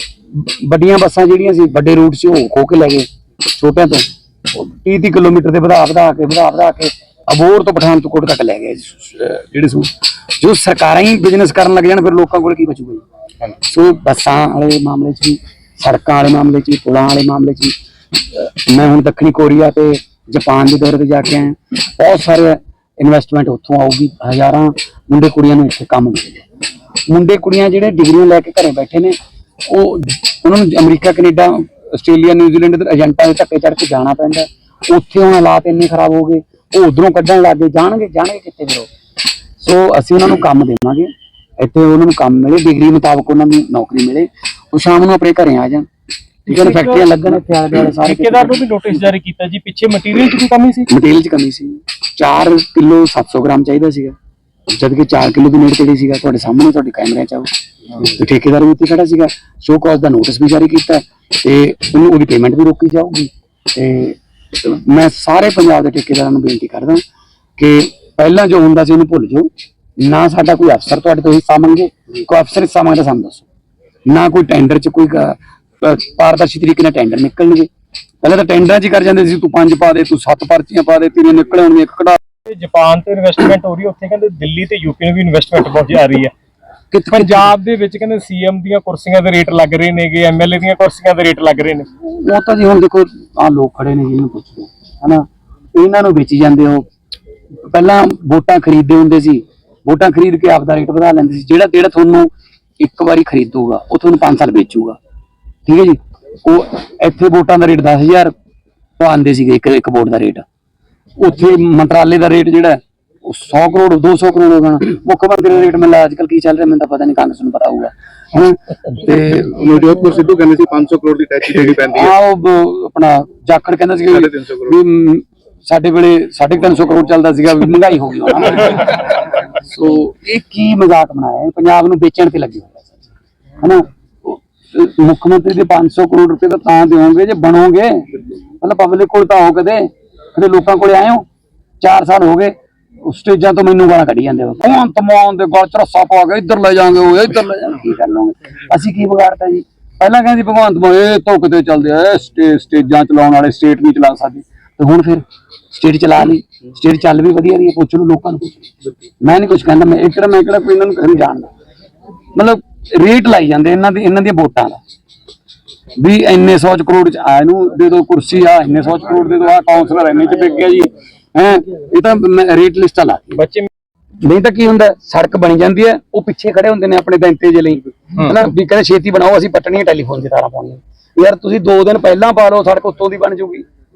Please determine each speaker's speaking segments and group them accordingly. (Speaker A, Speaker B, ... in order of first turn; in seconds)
Speaker A: 0.3-13.0, 13.6-17.7, 18.3-26.4, 27.1-38.9, 39.6-45.9, 46.5-49.1, 50.9-54.1, 54.7-67.0, 67.6-73.5, 74.1-77.7, 78.2-82.2, 86.9-87.5, 92.0-96.9, 97.7-105.0, 105.7-108.3, 109.0-110.4, 111.2-119.5, 121.9-133.0, 133.6-141.2, 141.8-158.7, 159.2-161.5, 162.3-164.8, 166.0-173.4, 174.2-183.7
Speaker B: 46.5-47.1, 48.0-50.9, 82.5-86.3, 87.1-91.9, 173.3-173.7
Speaker C: 119.4-122.1, 124.2-124.7